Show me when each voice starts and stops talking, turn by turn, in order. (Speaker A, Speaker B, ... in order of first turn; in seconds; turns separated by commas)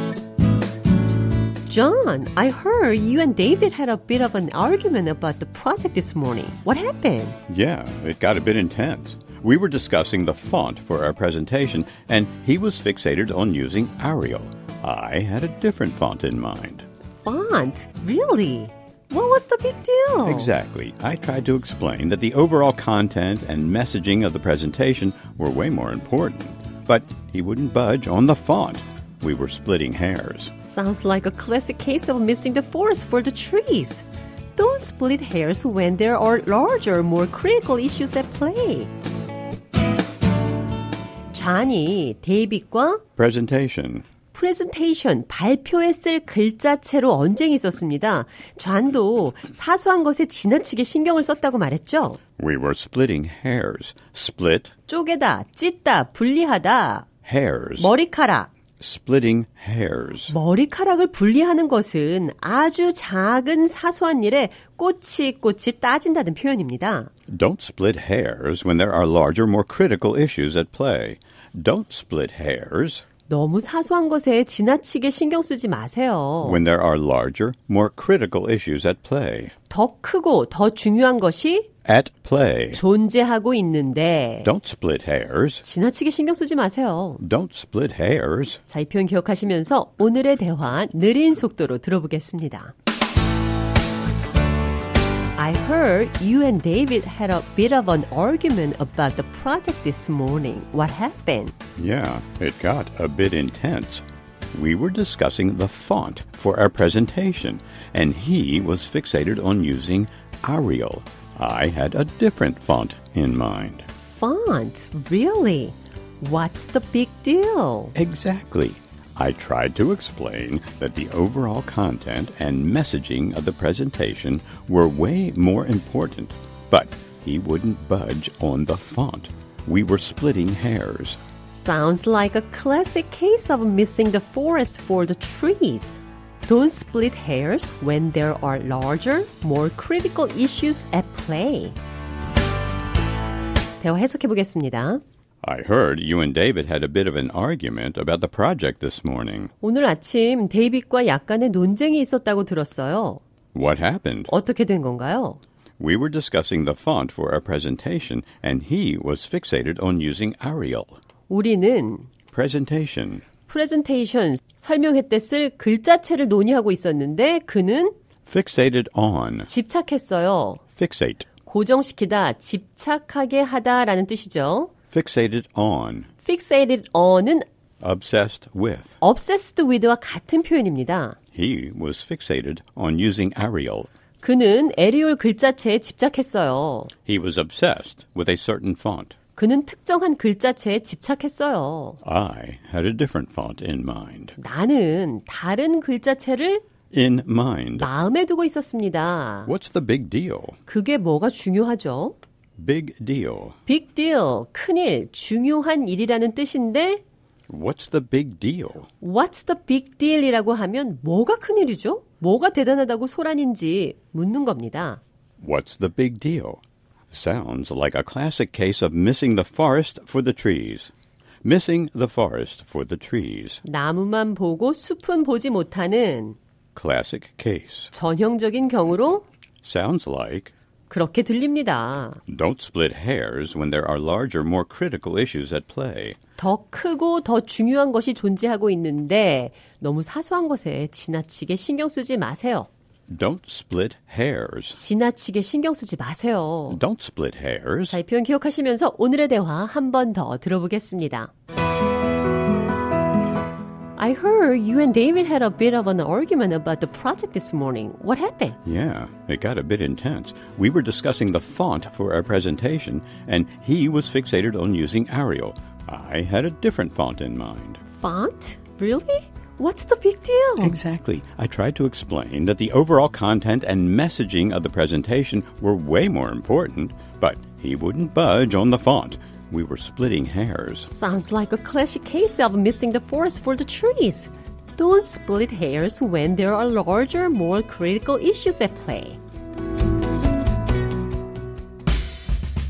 Speaker A: 1.7-7.4, Speaker B: 7.5-16.9, Speaker A: 17.2-20.5, Speaker B: 20.2-30.5, Speaker A: 30.6-34.0, Speaker A: 34.6-38.9, Speaker A: 41.3-43.0, Speaker B: 43.2-44.1, Speaker A: 44.3-52.2, Speaker B: 52.4-54.7, Speaker A: 54.9-57.1, Speaker B: 57.2-57.9, Speaker A: 57.8-58.5, Speaker B: 58.8-60.3, Speaker A: 60.3-67.1, Speaker B: 67.3-73.0, Speaker A: 73.3-76.6, Speaker B: 76.4-79.5, Speaker A: 79.7-81.7, Speaker B: 81.9-82.8, Speaker A: 82.7-84.5, Speaker B: 84.4-85.6, Speaker A: 85.6-87.2, Speaker B: 87.2-88.6, Speaker A: 88.7-92.7, Speaker A: 95.4-101.5, Speaker B: 101.8-113.9, Speaker A: 114.1-118.0, Speaker B: 118.0-131.2, Speaker A: 131.5-141.8, Speaker A: 143.8-145.0, Speaker B: 145.4-149.5, Speaker A: 149.6-153.2, Speaker B: 153.5-154.3, Speaker A: 154.3-155.4, Speaker B: 155.8-161.0, Speaker A: 161.3-162.1, Speaker B: 162.3-163.2, Speaker A: 163.5-167.9, Speaker B: 168.3-169.5, Speaker A: 169.5-170.6, Speaker B: 170.8-171.3, Speaker A: 171.5-174.7, Speaker B: 174.9-176.1, Speaker A: 176.2-177.4, Speaker B: 177.8-179.0, Speaker A: 179.0-181.2, Speaker B: 181.3-183.9, Speaker A: 184.2-186.9, Speaker B: 187.1-189.2, Speaker A: 189.4-192.0, Speaker B: 192.0-194.4, Speaker A: 194.4-196.6, Speaker B: 196.9-197.9, Speaker A: 197.8-199.5, Speaker B: 199.5-200.6, Speaker A: 200.7-202.2, Speaker B: 202.6-203.6, Speaker A: 203.7-207.0, Speaker B: 207.5-208.9, Speaker A: 209.0-215.0, Speaker B: 215.4-220.9, Speaker B: 221.4-223.6, Speaker A: 223.6-226.4, Speaker B: 226.8-227.9, Speaker A: 227.9-229.2, Speaker B: 229.6-230.5, Speaker A: 230.9-232.2, Speaker B: 232.3-236.2, Speaker A: 236.4-242.7, Speaker B: 243.1-244.8, Speaker A: 244.7-246.8, Speaker B: 246.7-248.0, Speaker A: 247.9-251.3, Speaker A: 254.0-258.6, Speaker B: 258.6-267.8, Speaker A: 268.0-270.8, Speaker B: 270.6-280.9, Speaker A: 280.9-289.2